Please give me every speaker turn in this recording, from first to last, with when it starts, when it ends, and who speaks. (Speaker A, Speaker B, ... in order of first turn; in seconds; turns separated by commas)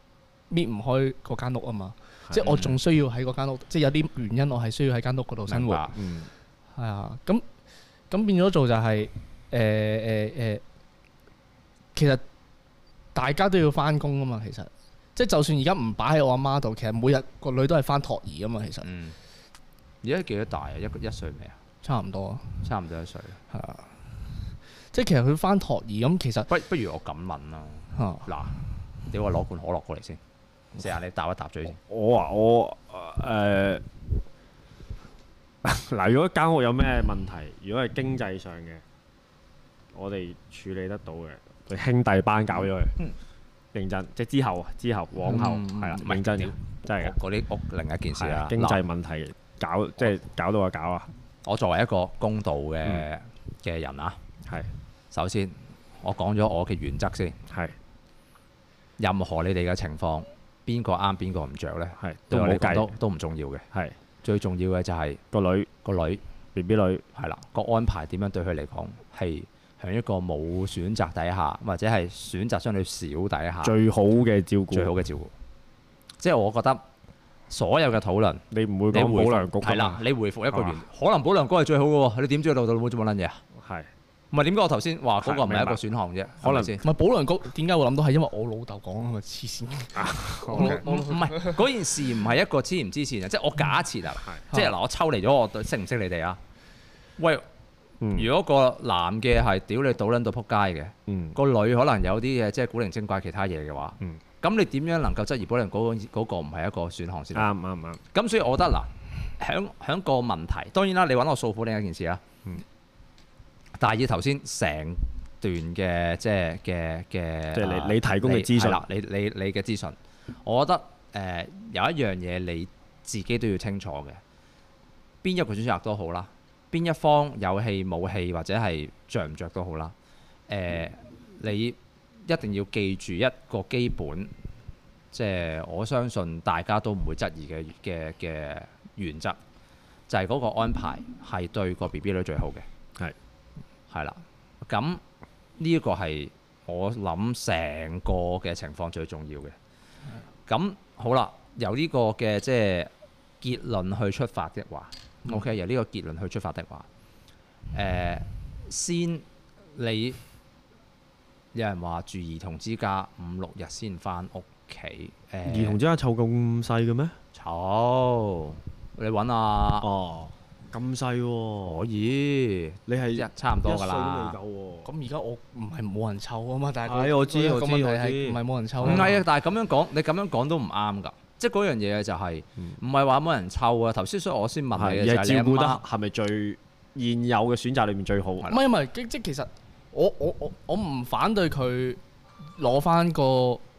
Speaker A: 0.5-5.9, Speaker B: 2.3-2.6, Speaker C: 2.4-2.8, Speaker C: 5.5-5.9, Speaker B: 5.9-6.3, Speaker A: 6.8-7.4, Speaker A: 8.1-10.6, Speaker A: 11.9-12.2, Speaker A: 13.1-18.9, Speaker C: 18.8-19.1, Speaker C: 20.0-21.6, Speaker A: 21.8-22.6, Speaker C: 22.6-23.4, Speaker A: 23.5-26.5, Speaker C: 26.5-28.5, Speaker A: 27.9-28.3, Speaker C: 29.1-30.2, Speaker C: 30.8-31.8, Speaker B: 31.8-33.8, Speaker B: 35.6-38.8, Speaker B: 39.9-43.0, Speaker B: 43.7-47.1, Speaker A: 45.3-46.1, Speaker C: 46.0-48.8, Speaker B: 48.1-51.1, Speaker C: 51.4-54.2, Speaker C: 55.1-57.4, Speaker B: 57.5-57.8, Speaker C: 59.0-63.6, Speaker B: 62.0-62.9, Speaker C: 64.2-65.2, Speaker B: 65.3-65.7, Speaker C: 65.8-66.2, Speaker B: 66.5-67.0, Speaker C: 67.1-73.7, Speaker B: 73.6-74.9, Speaker C: 74.7-75.3, Speaker C: 76.2-76.8, Speaker C: 77.5-83.4, Speaker B: 78.5-80.8, Speaker B: 83.5-83.9, Speaker C: 84.3-86.8, Speaker B: 85.2-85.8, Speaker B: 86.4-86.8, Speaker A: 86.8-91.6, Speaker B: 89.9-90.8, Speaker C: 90.5-96.4, Speaker C: 97.2-97.5, Speaker B: 98.0-98.3, Speaker C: 98.1-107.5, Speaker B: 101.1-101.3, Speaker B: 107.3-108.0, Speaker C: 108.1-112.2, Speaker C: 113.8-124.2, Speaker B: 117.5-118.8, Speaker C: 125.2-129.9, Speaker C: 130.5-134.3, Speaker C: 135.1-139.4, Speaker C: 140.1-142.6, Speaker C: 143.9-145.0, Speaker C: 145.6-149.5, Speaker C: 150.5-156.9, Speaker C: 157.7-160.2, Speaker C: 161.5-165.8, Speaker B: 165.4-167.2, Speaker C: 167.3-169.9, Speaker B: 169.8-171.8, Speaker C: 171.6-174.4, Speaker B: 172.9-174.9, Speaker A: 174.8-179.1, Speaker B: 176.8-179.2, Speaker C: 178.8-185.8, Speaker B: 184.7-188.5, Speaker A: 188.4-192.0, Speaker A: 192.6-193.6